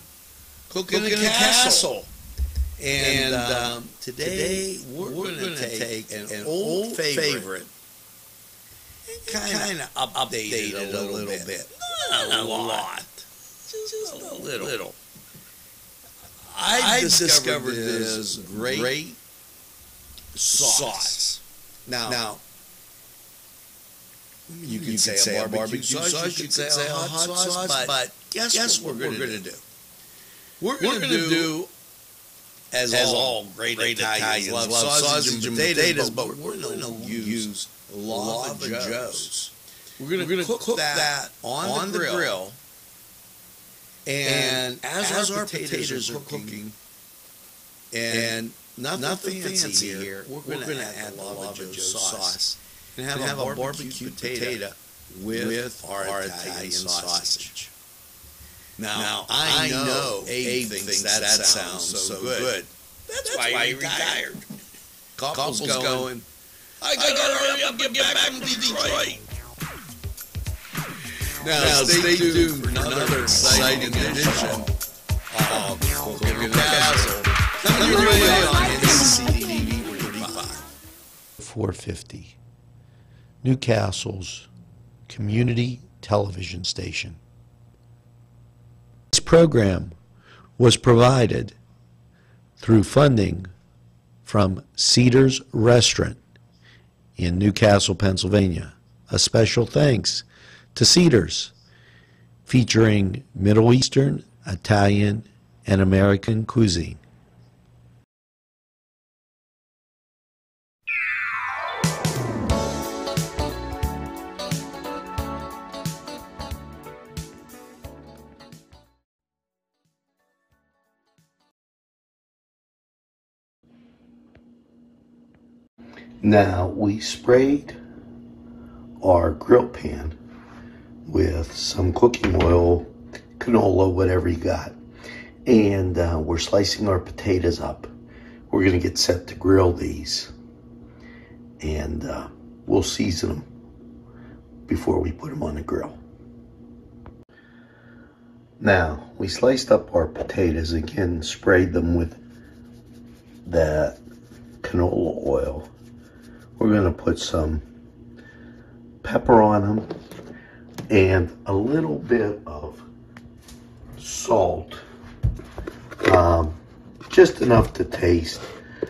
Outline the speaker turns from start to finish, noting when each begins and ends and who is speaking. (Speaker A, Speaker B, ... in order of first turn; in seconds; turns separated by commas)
Speaker A: 0.7-2.0, Speaker B: 0.7-2.1, Speaker A: 2.8-7.6, Speaker B: 2.9-7.7, Speaker A: 9.2-13.1, Speaker B: 9.2-13.1, Speaker B: 13.8-14.9, Speaker A: 13.9-14.9, Speaker B: 16.5-19.1, Speaker A: 16.6-19.2, Speaker A: 20.4-21.3, Speaker B: 20.5-21.4, Speaker A: 21.9-22.4, Speaker B: 21.9-22.3, Speaker A: 24.5-29.6, Speaker B: 24.6-29.6, Speaker B: 30.6-31.7, Speaker A: 30.7-31.6, Speaker B: 32.7-39.4, Speaker A: 32.9-39.5, Speaker A: 40.0-42.5, Speaker B: 40.1-42.6, Speaker A: 44.2-46.7, Speaker B: 44.2-46.7, Speaker A: 48.0-57.7, Speaker B: 48.1-52.4, Speaker B: 53.0-57.6, Speaker B: 58.8-62.7, Speaker A: 58.8-64.3, Speaker B: 63.2-64.4, Speaker B: 65.2-66.2, Speaker A: 65.3-66.2, Speaker A: 66.8-69.1, Speaker B: 66.8-69.2, Speaker A: 71.4-74.7, Speaker B: 71.4-74.7, Speaker B: 75.4-80.5, Speaker A: 75.5-80.6, Speaker A: 81.4-82.4, Speaker A: 83.4-84.5, Speaker A: 85.1-87.2, Speaker A: 89.1-90.0, Speaker A: 90.6-91.6, Speaker A: 92.6-93.5, Speaker A: 94.2-96.2, Speaker A: 97.2-101.5, Speaker A: 102.5-107.0, Speaker A: 126.2-127.8, Speaker A: 129.0-130.2, Speaker A: 131.1-134.8, Speaker A: 135.5-137.9, Speaker A: 138.5-140.3, Speaker A: 141.6-143.5, Speaker A: 144.7-146.0, Speaker A: 148.6-152.2, Speaker A: 153.5-154.0, Speaker A: 154.6-155.7, Speaker A: 156.6-157.6, Speaker A: 159.0-159.9, Speaker A: 160.9-162.9, Speaker A: 164.0-164.8, Speaker A: 166.0-166.6, Speaker A: 167.1-168.5